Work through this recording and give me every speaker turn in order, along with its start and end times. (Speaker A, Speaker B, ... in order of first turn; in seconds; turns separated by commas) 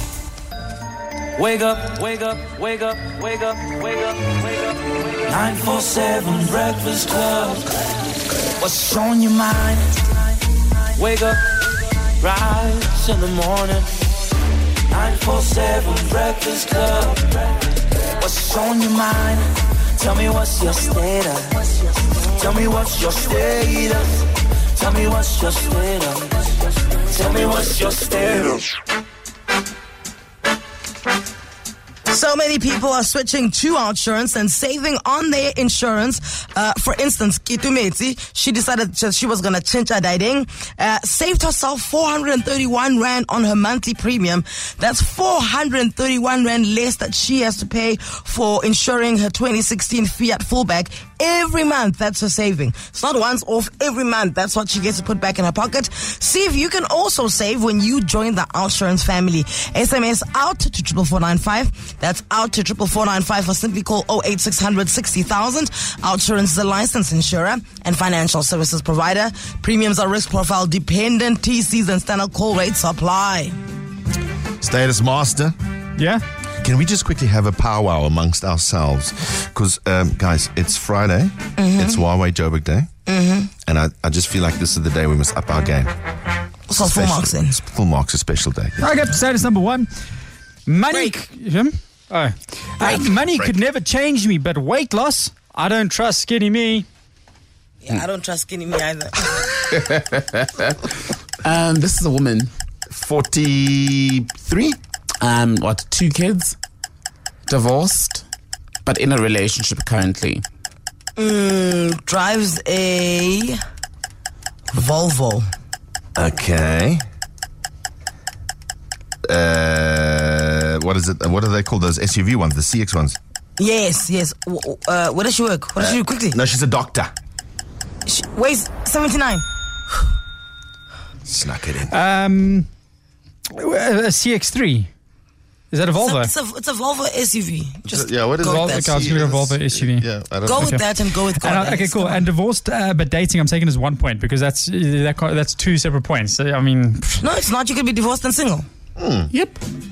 Speaker A: 1.4-4.3, Speaker A: 5.3-7.7, Speaker A: 8.6-9.9, Speaker A: 11.0-11.4, Speaker A: 12.2-13.9, Speaker A: 14.9-17.5, Speaker A: 18.2-21.7, Speaker A: 22.4-24.2, Speaker A: 24.8-26.5, Speaker A: 27.1-28.7, Speaker B: 32.1-73.6, Speaker C: 74.6-75.6, Speaker D: 76.0-76.2, Speaker C: 76.6-82.9, Speaker B: 81.6-82.0, Speaker B: 83.1-83.5, Speaker C: 83.7-85.9, Speaker B: 86.7-87.6, Speaker C: 86.8-88.9, Speaker D: 88.8-89.9, Speaker D: 90.7-96.9, Speaker C: 92.8-93.5, Speaker B: 97.8-99.4, Speaker E: 99.7-100.8, Speaker E: 101.4-102.5, Speaker C: 102.9-104.8, Speaker E: 105.2-106.6, Speaker E: 107.5-108.3, Speaker E: 108.8-110.4, Speaker B: 111.2-113.6, Speaker B: 114.7-115.5, Speaker C: 116.2-117.0, Speaker C: 119.2-123.2, Speaker B: 123.6-126.4, Speaker C: 125.8-127.1, Speaker B: 128.1-129.4, Speaker C: 131.3-131.9, Speaker D: 131.9-132.7, Speaker D: 133.5-134.9, Speaker D: 135.7-136.3, Speaker B: 136.0-139.0, Speaker C: 137.9-140.7, Speaker D: 138.4-140.8, Speaker B: 140.4-142.3, Speaker D: 141.4-147.2, Speaker B: 147.2-148.7, Speaker C: 149.0-149.3, Speaker E: 149.3-149.6